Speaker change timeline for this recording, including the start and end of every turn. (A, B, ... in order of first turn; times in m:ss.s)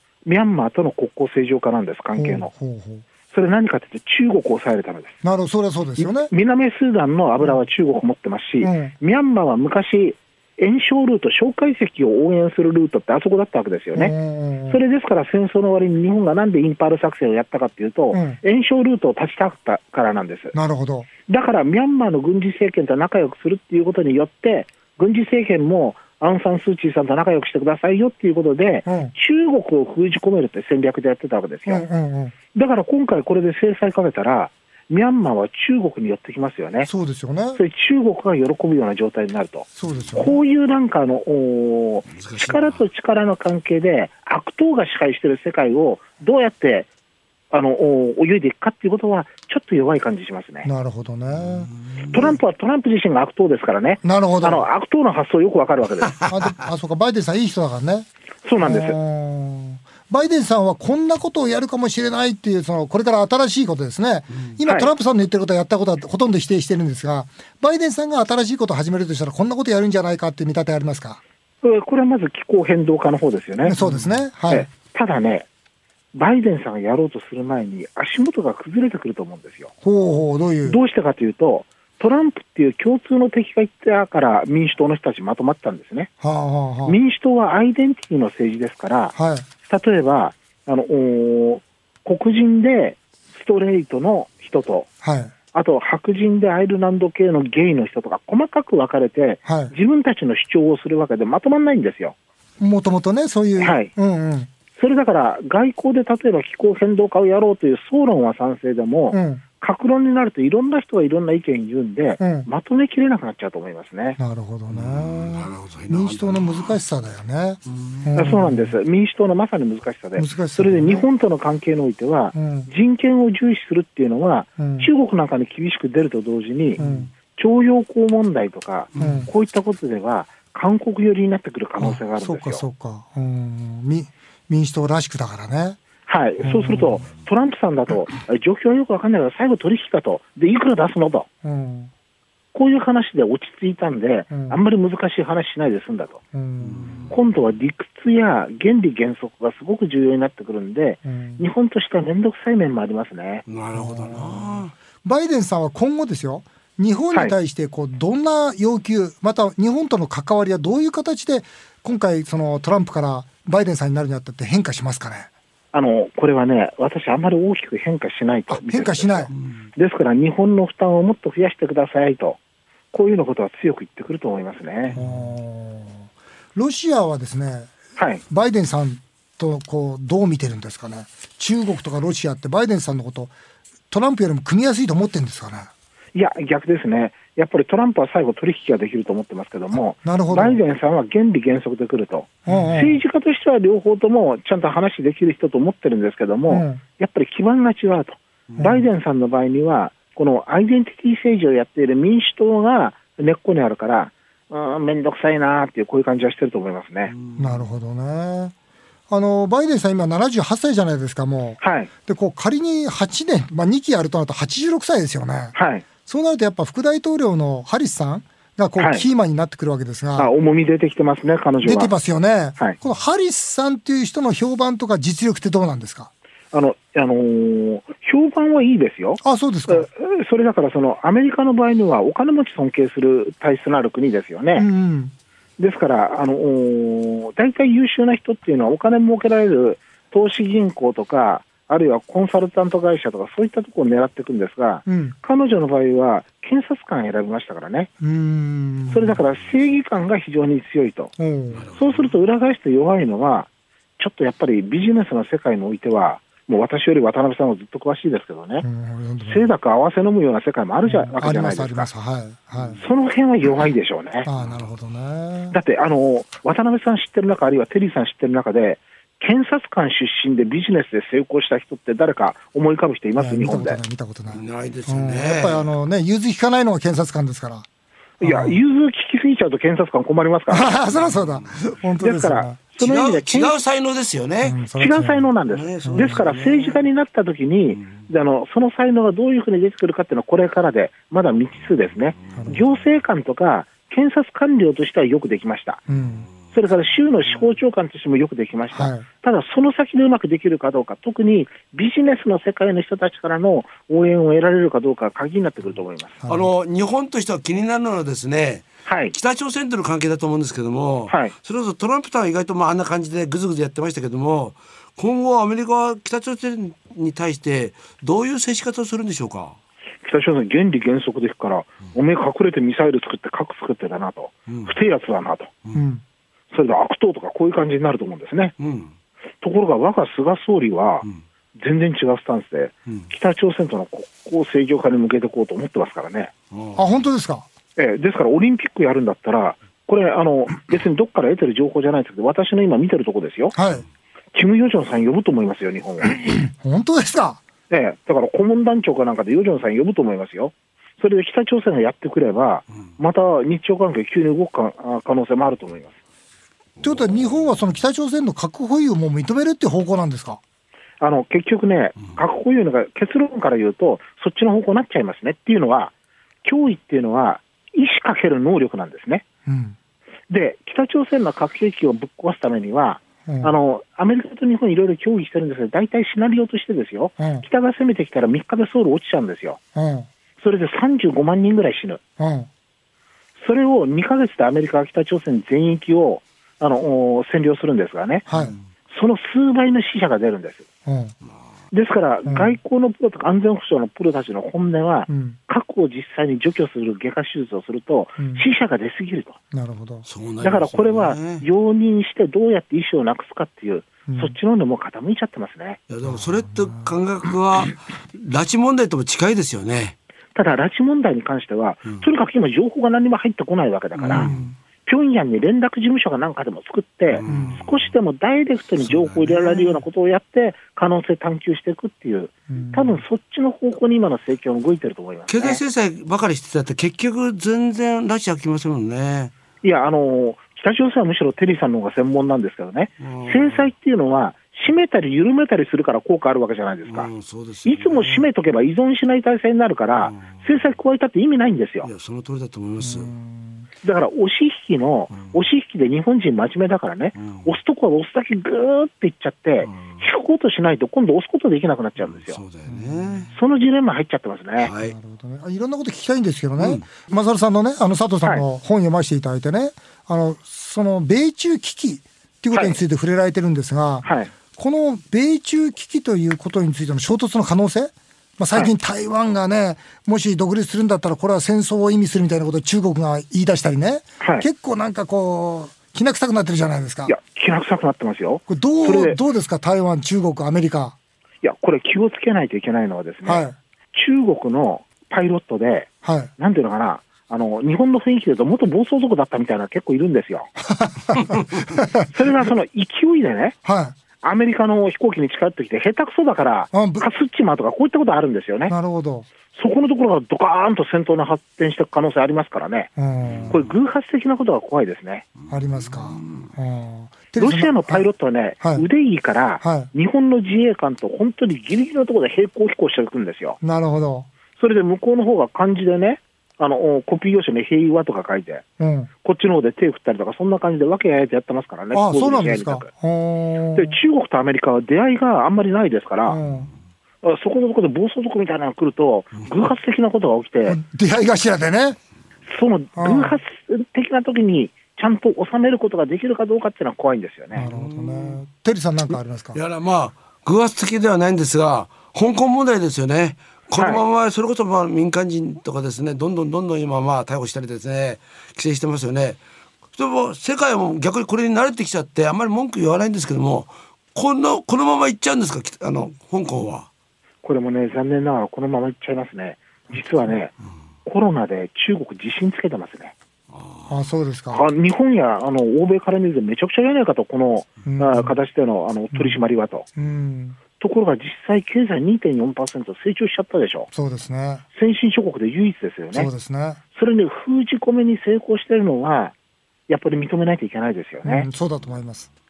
0:00.2-0:02.5 A
0:02.1-0:03.0 B
0:03.3-0:05.2 A
0:05.2-0:06.3 B
0:06.2-0:14.1 A
0:08.6-0:08.9 B
0:13.9-0:14.8 B
0:14.7-0:20.5 A
0:18.1-0:18.4 B
0:20.5-0:21.1 B
0:21.3-0:31.8 A
0:28.8-0:29.1 B
0:31.6-0:32.3 B
0:32.5-0:36.9 A
0:36.8-0:37.6 B
0:37.6-0:46.9 A
0:39.8-0:40.4 B
0:42.1-0:42.8 C
0:47.5-0:50.7 A
0:50.6-0:51.7 B
0:51.4-0:52.2 C
0:52.1-0:56.2 A
0:54.0-0:54.6 B
0:56.3-0:58.1 B
0:58.4-0:59.0 A
0:58.6-1:11.2 B
1:04.6-1:04.9 A
1:11.6-1:13.8 A
1:13.6-1:14.7 B
1:13.8-1:14.2 C
1:14.5-1:15.5 A
1:16.1-1:19.7 A
1:19.8-1:20.8 B
1:20.6-1:26.1 A
1:26.2-1:27.0 B
1:26.8-1:34.9 A
1:29.1-1:29.4 B
1:35.0-1:35.3 B
1:35.5-1:42.1 A
1:39.4-1:39.7 B
1:42.6-1:44.5 B
1:43.6-1:43.9 A
1:44.7-1:54.2 A
1:49.1-1:49.4 B
1:52.2-1:52.5 B
1:54.2-1:58.8 B
1:54.7-1:56.7 C
1:58.1-2:12.6 A
2:00.2-2:01.0 B
2:02.3-2:02.7 B
2:04.6-2:04.9 B
2:06.8-2:07.1 B
2:09.0-2:09.3 B
2:11.8-2:15.8 B
2:16.1-2:21.3 A
2:16.4-2:17.0 B
2:21.4-2:21.9 B
2:22.5-2:26.2 A
2:24.3-2:24.6 B
2:26.3-2:27.1 B
2:26.7-2:27.1 C
2:27.1-2:33.4 A
2:31.0-2:31.4 B
2:33.4-2:34.7 C
2:33.7-2:45.3 B
2:45.7-2:52.4 A
2:48.5-2:49.3 B
2:52.9-2:55.0 A
2:54.9-2:57.7 B
2:58.0-2:58.2 A
2:58.3-3:03.3 B
3:03.9-3:05.7 B
3:06.1-3:27.1 A
3:09.7-3:10.6 B
3:12.4-3:13.0 B
3:16.5-3:16.8 B
3:18.6-3:18.8 B
3:27.1-3:27.6 C
3:27.4-3:28.5 B
3:29.1-3:35.5 B
3:31.6-3:31.9 A
3:35.5-3:35.8 A
3:36.0-3:40.3 B
3:38.8-3:39.0 A
3:40.2-3:41.9 A
3:41.6-3:46.1 B
3:46.5-3:54.7 A
3:49.2-3:49.9 B
3:54.6-3:55.1 B
3:55.6-4:07.9 A
4:04.8-4:05.2 B
4:08.0-4:09.2 B
4:08.9-4:11.1 A
4:11.2-4:11.6 B
4:11.6-4:12.1 C
4:11.8-4:18.6 A
4:18.6-4:19.5 B
4:19.3-4:21.9 A
4:20.8-4:22.8 B
4:22.8-4:24.3 A
4:24.2-4:25.6 B
4:25.5-4:33.8 A
4:33.2-4:37.6 B
4:34.3-4:35.7 C
4:38.2-4:38.6 B
4:38.2-4:40.7 A
4:40.5-4:42.6 B
4:42.0-4:43.6 A
4:42.8-4:44.6 C
4:44.4-4:45.3 B
4:44.8-4:55.8 A
4:45.5-4:46.8 C
4:45.8-4:46.2 B
4:47.8-4:48.1 C
4:55.9-4:56.3 B
4:56.5-5:06.2 A
4:58.7-4:59.0 B
5:06.2-5:06.5 B
5:06.2-5:19.6 C
5:08.8-5:09.1 A
5:20.0-5:25.5 A
5:24.5-5:24.7 C
5:25.7-5:26.0 B
5:26.5-5:28.5 A
5:28.6-5:28.9 C
5:29.4-5:36.3 A
5:36.5-5:36.8 C
5:36.7-5:37.5 B
5:37.8-5:43.5 A
5:43.5-5:43.8 B
5:44.3-5:46.2 A
5:46.2-5:47.4 B
5:47.7-5:55.9 A
5:56.8-6:00.4 B
6:01.0-6:05.9 A
6:06.4-6:09.2 A
6:09.4-6:09.8 B
6:10.3-6:19.6 A
6:13.3-6:13.5 B
6:17.2-6:17.4 B
6:19.7-6:20.1 B
6:20.4-6:22.0 A
6:22.2-6:22.5 B
6:23.4-6:28.2 A
6:28.3-6:28.5 B
6:28.9-6:30.6 A
6:30.8-6:31.1 B
6:31.7-6:39.4 A
6:32.2-6:32.6 B
6:35.1-6:35.4 B
6:38.2-6:38.4 B
6:39.5-6:40.0 B
6:40.0-6:41.4 C
6:40.4-6:45.8 A
6:44.1-6:44.4 B
6:45.9-6:49.9 C
6:50.3-6:54.3 A
6:54.0-6:54.4 C
6:54.1-6:54.5 B
6:54.8-7:05.6 A
6:57.1-6:57.6 C
6:57.3-6:57.6 B
7:02.5-7:03.0 B
7:05.3-7:09.3 C
7:09.6-7:17.1 A
7:13.0-7:13.6 C
7:16.9-7:18.2 C
7:17.6-7:21.9 A
7:20.0-7:20.4 C
7:21.8-7:23.1 C
7:22.8-7:23.6 B
7:23.8-7:32.4 A
7:27.2-7:27.5 C
7:29.6-7:30.0 C
7:32.1-7:33.3 C
7:32.7-7:33.3 B
7:33.3-7:34.7 A
7:34.6-7:35.0 C
7:34.8-7:57.1 B
7:36.6-7:36.9 C
7:42.5-7:42.8 A
7:44.0-7:44.3 A
7:54.2-7:54.5 A
7:57.1-7:59.2 A
7:58.5-8:00.9 B
8:01.4-8:10.5 A
8:03.2-8:03.6 B
8:06.0-8:06.3 B
8:10.8-8:12.1 B
8:12.1-8:13.6 A
8:13.6-8:13.9 B
8:14.2-8:18.7 A
8:16.7-8:17.0 B
8:18.7-8:19.3 B
8:19.5-8:22.9 A
8:23.0-8:23.6 B
8:23.3-8:23.6 C
8:23.5-8:25.3 A
8:25.5-8:28.1 B
8:26.2-8:26.4 C
8:27.4-8:33.6 A
8:29.6-8:29.9 B
8:33.6-8:34.3 B
8:34.6-8:38.6 A
8:38.8-8:39.1 B
8:39.2-8:42.9 A
8:41.9-8:44.0 B
8:43.8-8:46.4 A
8:46.2-8:46.7 B
8:47.2-8:50.8 A
8:50.7-8:52.0 B
8:52.5-8:57.6 A
8:53.0-8:53.4 B
8:57.5-8:59.6 B
8:57.6-8:58.4 C
8:59.5-9:09.4 C
9:03.8-9:04.0 A
9:09.9-9:16.9 C
9:17.4-9:20.5 A
9:21.0-9:23.1 A
9:23.5-9:23.9 C
9:23.9-9:24.6 B
9:24.5-9:29.9 A
9:27.8-9:28.3 B
9:29.1-9:29.4 B
9:30.0-9:30.6 B
9:30.8-9:33.9 A
9:33.9-9:34.6 B
9:34.7-9:36.3 A
9:36.1-9:36.8 B
9:36.9-9:39.3 A
9:39.9-9:41.5 A
9:41.2-9:42.3 B